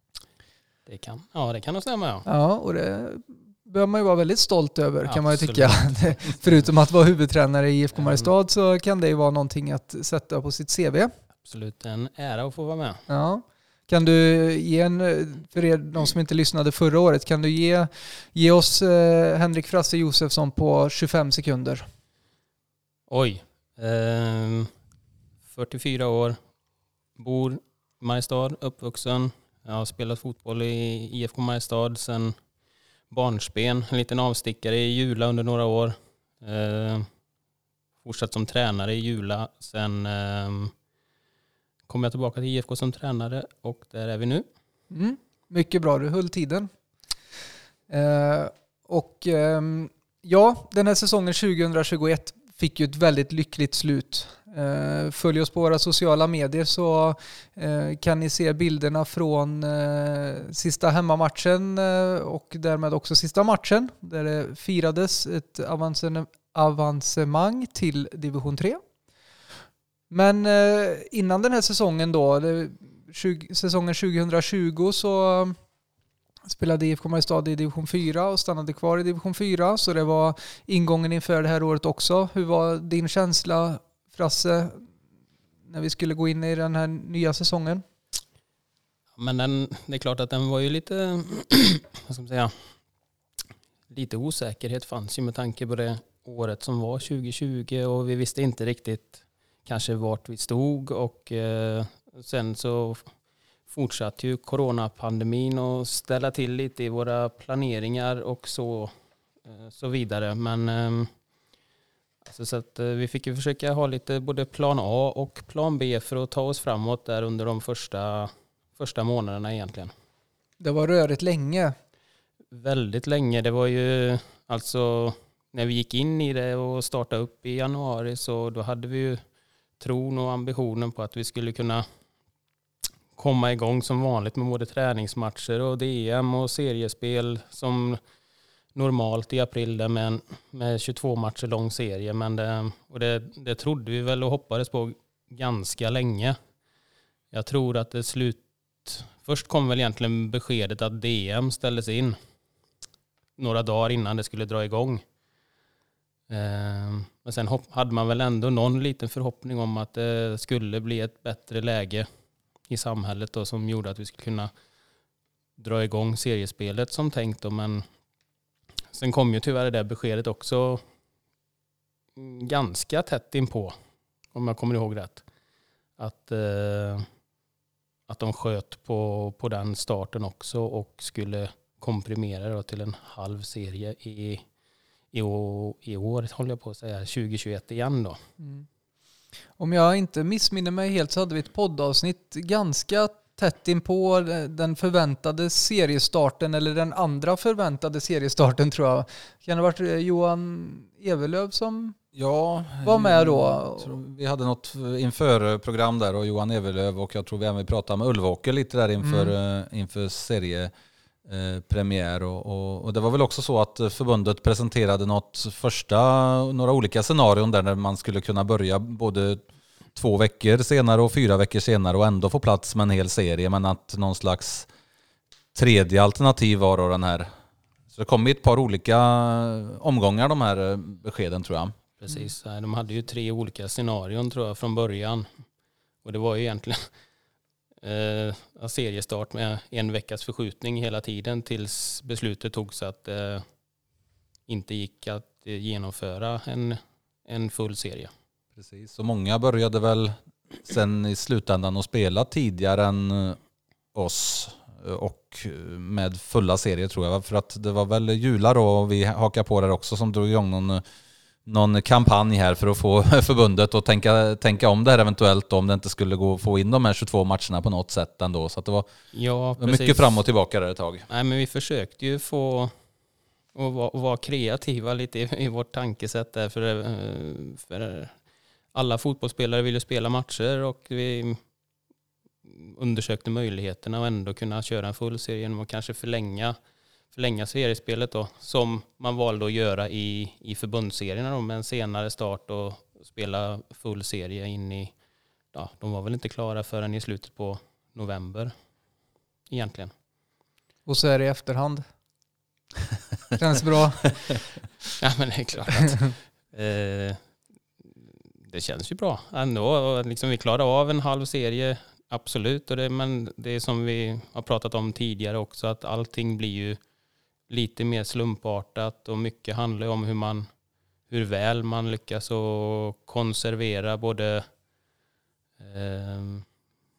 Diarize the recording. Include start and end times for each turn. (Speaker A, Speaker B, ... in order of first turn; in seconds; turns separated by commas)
Speaker A: 0.8-2.2, Speaker B: 2.2-11.1, Speaker A: 5.0-6.5, Speaker A: 8.0-8.3, Speaker A: 11.4-13.0, Speaker B: 13.1-21.9, Speaker A: 23.1-24.7, Speaker A: 25.5-26.4, Speaker A: 27.1-32.4, Speaker A: 33.1-37.1, Speaker A: 38.0-40.7, Speaker A: 41.9-44.5, Speaker B: 44.9-46.7, Speaker B: 47.9-68.8, Speaker B: 70.1-75.6, Speaker B: 76.5-84.9, Speaker B: 85.7-87.8, Speaker A: 89.2-92.7, Speaker A: 93.9-103.1, Speaker A: 103.7-108.9, Speaker A: 109.4-111.1, Speaker A: 112.2-119.9, Speaker B: 120.6-121.8, Speaker A: 122.5-129.2, Speaker A: 129.8-131.8, Speaker A: 133.2-138.0, Speaker A: 138.7-146.4, Speaker A: 147.3-152.2, Speaker A: 153.4-155.0, Speaker A: 156.3-162.1, Speaker A: 162.7-164.5, Speaker A: 165.6-167.8, Speaker A: 168.9-170.8, Speaker A: 172.2-173.7, Speaker A: 174.3-175.2, Speaker A: 176.0-177.1, Speaker A: 178.1-184.4, Speaker A: 185.1-188.2, Speaker B: 188.4-188.6, Speaker B: 189.6-202.0, Speaker C: 202.1-210.7, Speaker B: 202.8-204.0, Speaker B: 209.0-209.3, Speaker C: 211.2-219.4, Speaker C: 219.9-224.7, Speaker C: 225.5-227.3, Speaker C: 227.9-231.8, Speaker A: 232.0-235.3, Speaker A: 236.0-236.9, Speaker A: 237.8-243.4, Speaker A: 244.5-248.1, Speaker C: 248.6-253.4, Speaker C: 253.9-260.8, Speaker C: 261.4-268.9, Speaker A: 269.1-270.2, Speaker C: 269.6-271.1, Speaker A: 271.1-272.7, Speaker A: 273.5-278.1, Speaker A: 278.7-281.4, Speaker A: 282.4-286.6, Speaker A: 287.1-294.9, Speaker A: 295.5-298.5, Speaker A: 299.5-299.9, Speaker B: 300.9-301.9, Speaker B: 303.4-304.0, Speaker A: 305.0-307.2, Speaker B: 305.9-306.1, Speaker A: 308.4-316.8, Speaker A: 317.5-320.5, Speaker A: 321.1-324.5, Speaker A: 325.6-326.4